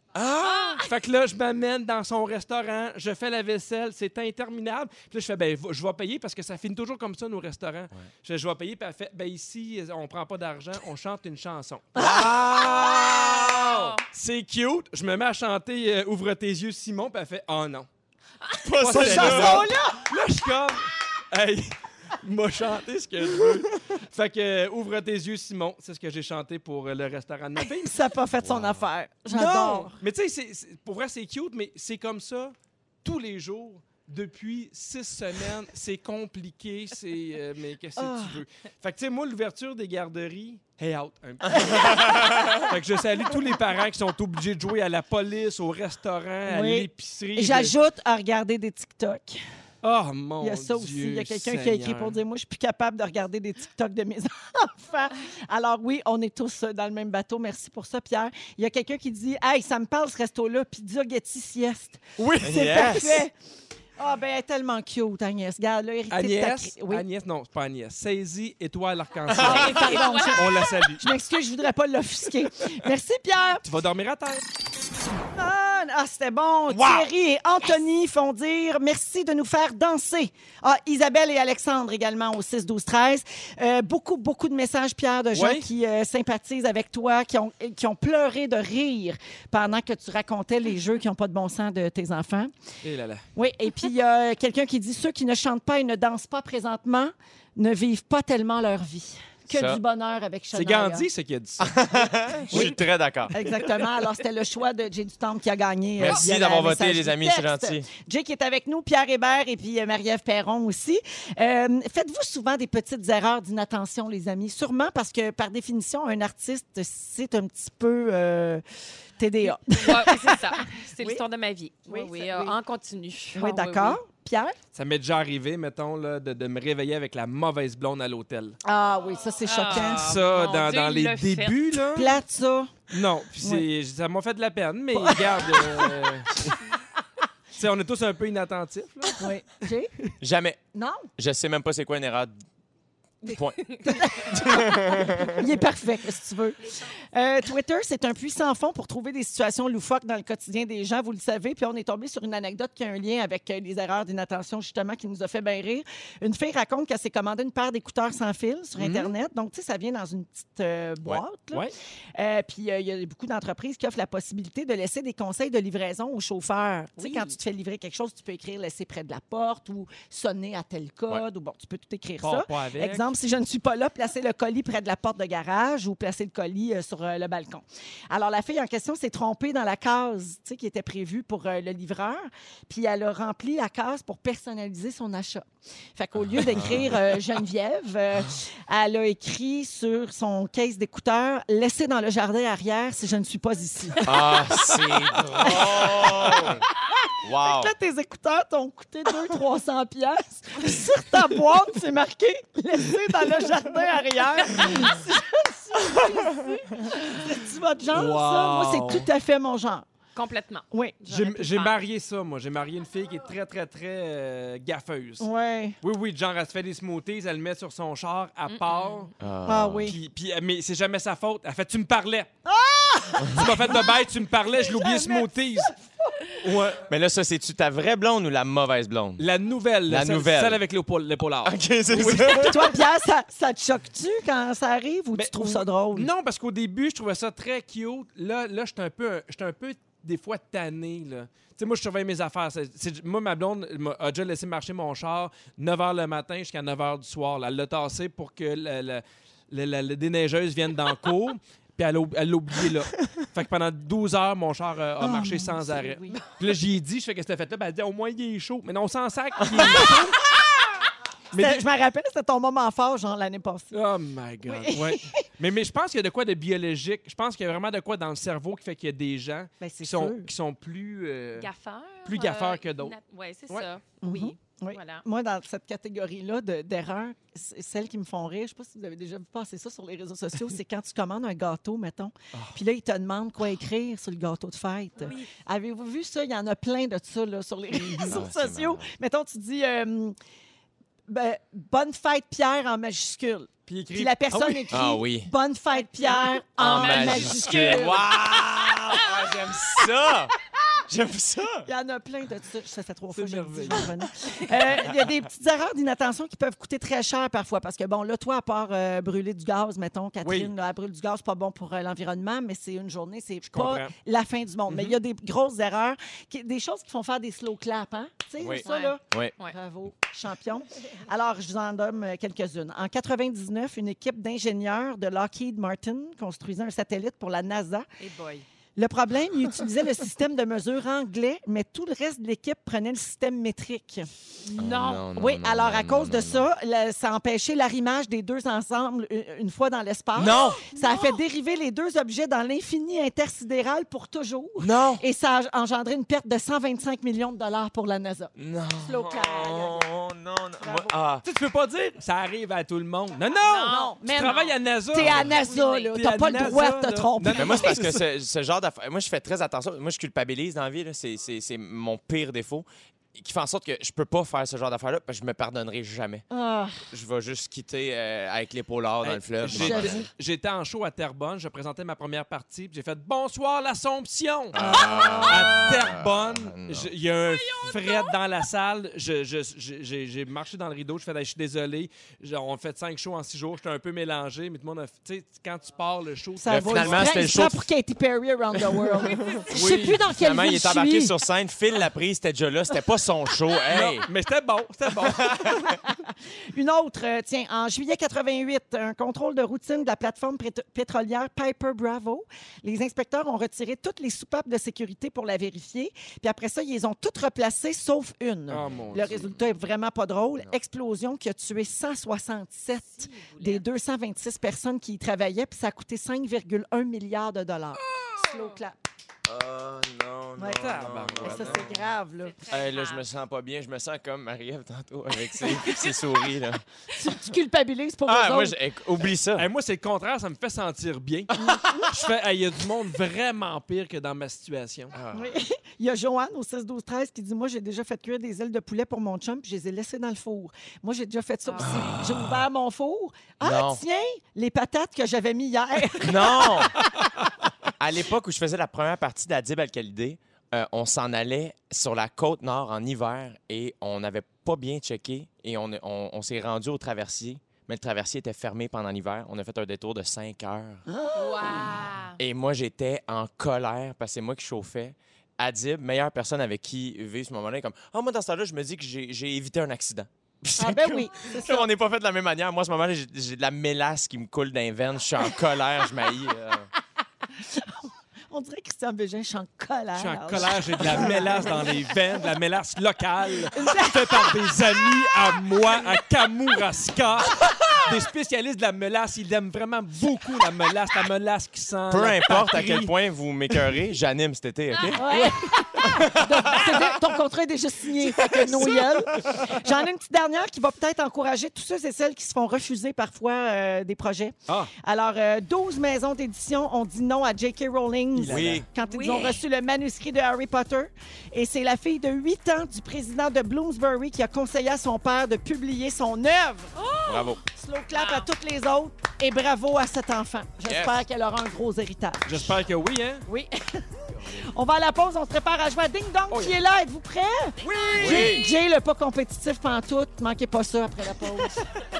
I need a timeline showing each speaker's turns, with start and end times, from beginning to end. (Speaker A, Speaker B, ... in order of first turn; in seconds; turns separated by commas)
Speaker A: 0.1-0.8, Speaker B: 0.4-0.9, Speaker C: 0.8-17.9, Speaker A: 11.9-13.6, Speaker D: 12.0-12.5, Speaker B: 13.0-14.0, Speaker A: 18.6-19.7, Speaker C: 18.8-27.9, Speaker D: 18.9-20.1, Speaker D: 27.8-30.0, Speaker A: 28.4-28.9, Speaker C: 29.3-47.7, Speaker D: 38.0-38.4, Speaker A: 41.9-42.6, Speaker D: 46.5-49.4, Speaker C: 49.8-52.2, Speaker D: 50.4-63.3, Speaker C: 62.2-63.2, Speaker A: 62.4-63.0, Speaker D: 64.0-67.0, Speaker C: 66.1-71.1, Speaker A: 69.3-69.7, Speaker D: 69.4-73.6, Speaker B: 69.4-70.7, Speaker C: 73.6-74.4, Speaker D: 75.3-92.5, Speaker A: 76.8-77.0, Speaker C: 85.3-85.7, Speaker C: 92.8-93.2, Speaker D: 93.3-101.1, Speaker A: 99.5-99.8, Speaker C: 100.5-101.8, Speaker A: 101.6-103.4, Speaker C: 102.5-102.8, Speaker D: 103.3-118.6, Speaker A: 106.0-107.9, Speaker D: 119.2-121.2, Speaker B: 119.7-124.0, Speaker D: 121.9-122.6, Speaker D: 123.3-124.5, Speaker C: 124.7-128.6, Speaker D: 128.6-130.2, Speaker B: 129.4-131.8, Speaker C: 129.7-132.2, Speaker D: 131.9-132.8, Speaker C: 132.9-136.5, Speaker D: 133.4-133.7, Speaker D: 134.9-135.9, Speaker C: 137.5-139.3, Speaker D: 139.2-139.9, Speaker A: 140.2-140.6, Speaker D: 140.7-141.1, Speaker A: 141.2-142.3, Speaker A: 143.2-145.4, Speaker D: 143.3-194.4, Speaker C: 158.8-159.1, Speaker B: 167.0-167.3, Speaker C: 172.2-173.1, Speaker A: 186.3-187.0, Speaker A: 194.0-196.6, Speaker D: 195.3-196.6, Speaker A: 197.2-197.7, Speaker D: 197.3-209.8, Speaker C: 207.9-209.1, Speaker B: 210.1-211.8, Speaker D: 210.7-211.0, Speaker C: 211.1-215.3, Speaker D: 215.2-215.8, Speaker C: 215.8-219.1, Speaker B: 218.5-219.1, Speaker A: 219.2-219.9, Speaker D: 219.5-220.0, Speaker C: 219.8-222.3, Speaker D: 222.4-223.9, Speaker C: 223.3-225.7, Speaker D: 224.6-226.4, Speaker C: 226.4-226.8, Speaker A: 226.9-229.3, Speaker C: 229.2-232.8, Speaker A: 229.8-230.6, Speaker A: 231.4-232.8, Speaker D: 231.9-236.1, Speaker C: 235.1-260.2, Speaker D: 255.0-256.2, Speaker D: 259.6-260.0, Speaker C: 261.3-261.6, Speaker D: 261.4-263.8, Speaker C: 263.7-271.5, Speaker D: 264.4-265.2, Speaker D: 269.6-270.3, Speaker B: 271.4-275.0, Speaker C: 272.1-272.9, Speaker D: 274.0-290.1, Speaker B: 285.0-285.3, Speaker C: 287.8-288.1, Speaker A: 288.0-288.9, Speaker D: 291.1-298.0, Speaker C: 293.6-294.8, Speaker A: 294.7-295.3, Speaker B: 295.7-298.0, Speaker A: 296.6-300.3, Speaker A: 300.9-301.7, Speaker D: 301.6-327.9, Speaker C: 303.1-303.9, Speaker C: 310.2-310.5, Speaker C: 313.5-313.9, Speaker C: 314.7-315.0, Speaker A: 318.4-319.3, Speaker B: 318.6-319.5, Speaker B: 328.0-328.4, Speaker D: 328.8-334.1, Speaker B: 334.4-335.1, Speaker A: 334.6-336.5, Speaker D: 335.1-349.8, Speaker A: 340.1-340.6, Speaker B: 340.2-341.2, Speaker A: 344.6-345.0, Speaker A: 348.4-351.2, Speaker D: 350.6-350.9, Speaker C: 351.2-355.3, Speaker B: 353.3-354.6, Speaker D: 353.7-357.8, Speaker A: 354.9-355.3, Speaker B: 355.2-355.9, Speaker C: 355.9-358.0, Speaker A: 357.3-366.2, Speaker D: 366.3-366.8, Speaker A: 366.9-370.1, Speaker C: 369.0-387.3, Speaker D: 369.4-370.1, Speaker A: 374.5-376.9, Speaker B: 377.6-377.9, Speaker D: 386.4-391.1, Speaker A: 386.5-387.7, Speaker B: 389.1-389.4, Speaker A: 389.4-394.1, Speaker C: 389.5-390.0, Speaker C: 393.7-395.7, Speaker A: 395.0-395.6, Speaker D: 395.8-418.8, Speaker C: 408.5-409.2, Speaker A: 408.6-409.4, Speaker B: 413.0-413.6, Speaker B: 418.2-418.6, Speaker A: 419.2-421.7, Speaker D: 420.4-422.6, Speaker C: 420.5-421.7, Speaker B: 422.4-423.1, Speaker A: 422.5-426.6, Speaker D: 426.9-428.6, Speaker A: 428.1-429.5, Speaker C: 429.4-434.9, Speaker D: 431.4-431.8, Speaker A: 434.9-435.3, Speaker D: 435.1-446.7, Speaker B: 441.4-441.8, Speaker A: 441.6-442.3, Speaker A: 443.4-443.8, Speaker A: 446.0-446.8, Speaker A: 447.8-460.8, Speaker D: 460.9-461.9, Speaker B: 461.1-462.2, Speaker A: 462.2-476.7, Speaker D: 470.6-471.7, Speaker D: 477.4-481.8, Speaker C: 479.9-492.9, Speaker D: 483.5-484.9, Speaker A: 491.9-496.8, Speaker B: 494.7-495.8, Speaker D: 494.9-516.8, Speaker C: 498.2-498.7, Speaker A: 508.2-508.6, Speaker C: 508.2-508.6, Speaker B: 508.8-509.4, Speaker B: 516.8-517.3, Speaker A: 517.0-517.4, Speaker D: 517.5-522.5, Speaker B: 517.9-518.3, Speaker A: 520.6-521.0, Speaker C: 522.2-523.2, Speaker D: 523.2-531.6, Speaker C: 526.3-526.5, Speaker B: 527.6-528.5, Speaker C: 527.8-528.3, Speaker A: 528.0-528.5